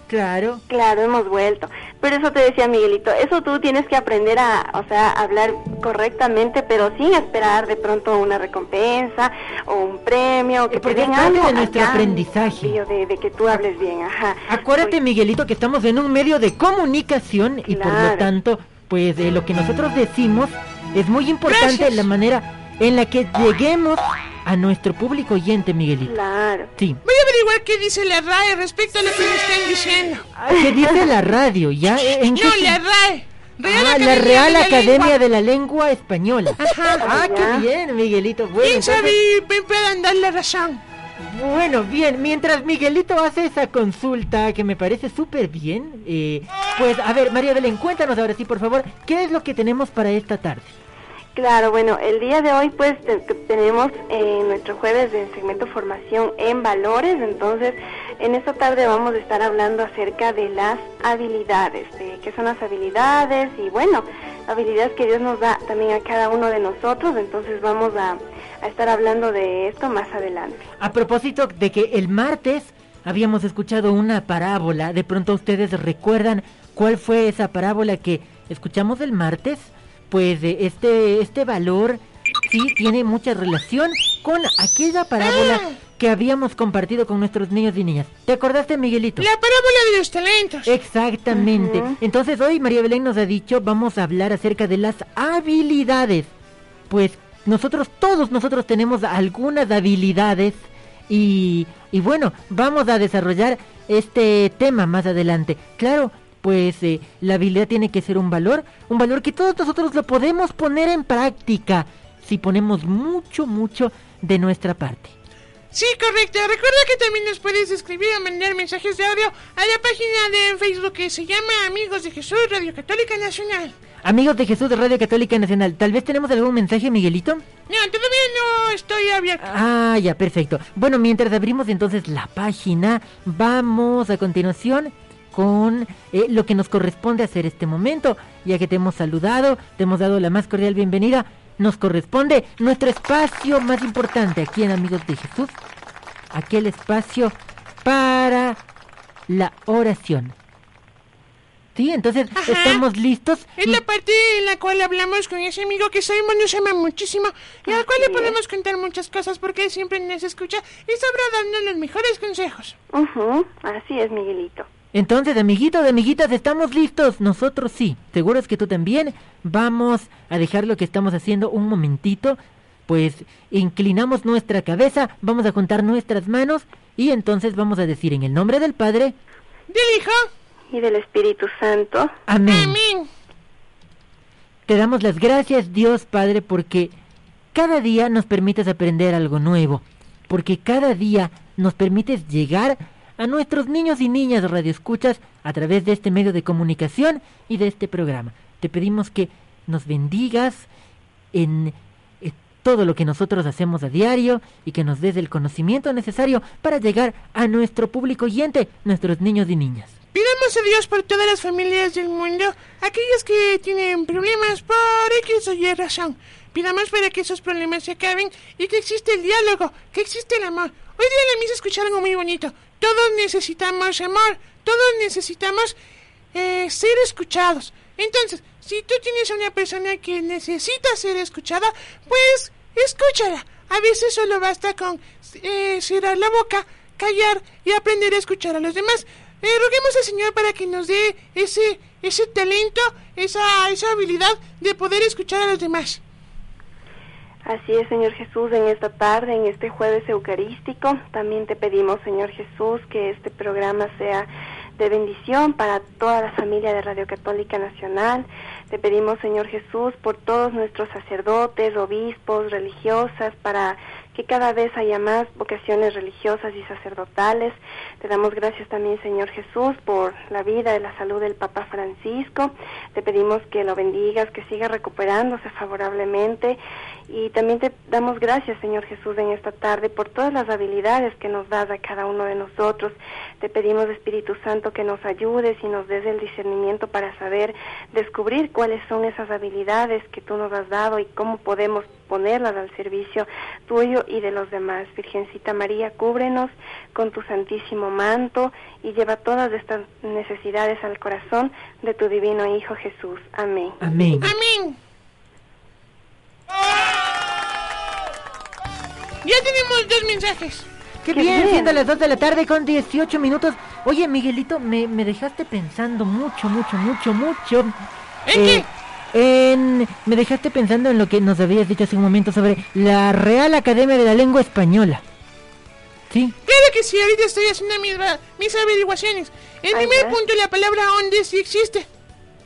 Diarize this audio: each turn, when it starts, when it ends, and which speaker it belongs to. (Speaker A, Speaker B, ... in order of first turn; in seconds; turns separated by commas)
Speaker A: 0.1-0.6, Speaker B: 0.7-14.9, Speaker A: 10.7-12.8, Speaker A: 14.5-26.1, Speaker B: 17.7-18.3, Speaker C: 21.5-22.0, Speaker B: 26.1-26.7, Speaker C: 27.1-30.3, Speaker A: 30.4-32.8, Speaker C: 32.3-35.1, Speaker A: 33.6-39.2, Speaker C: 36.6-37.0, Speaker B: 37.0-37.7, Speaker C: 38.6-40.8, Speaker A: 41.2-50.7, Speaker B: 51.4-70.7, Speaker A: 70.8-89.3, Speaker C: 85.2-85.8, Speaker C: 89.2-90.7, Speaker A: 90.7-96.3, Speaker B: 91.3-92.0, Speaker A: 96.9-115.1, Speaker C: 115.7-123.8, Speaker A: 124.0-127.4, Speaker C: 127.7-129.5, Speaker A: 129.4-145.5, Speaker A: 146.3-148.6, Speaker A: 149.3-150.3, Speaker A: 151.8-153.8, Speaker C: 152.4-152.8, Speaker C: 153.6-162.8, Speaker B: 157.7-158.4, Speaker B: 162.9-164.7, Speaker A: 164.9-179.2, Speaker C: 179.7-180.3, Speaker B: 180.7-182.1, Speaker A: 182.3-182.8, Speaker C: 182.5-183.1, Speaker A: 184.7-186.9, Speaker A: 187.5-200.7, Speaker A: 201.3-209.9, Speaker C: 210.1-225.8, Speaker C: 226.3-246.0, Speaker B: 247.5-303.8, Speaker A: 303.8-304.3, Speaker C: 304.2-304.8, Speaker C: 309.2-310.7, Speaker A: 311.0-317.7, Speaker B: 311.1-311.8, Speaker C: 318.3-318.7, Speaker A: 318.3-325.0, Speaker A: 326.1-326.4, Speaker C: 326.5-331.9, Speaker B: 329.7-330.2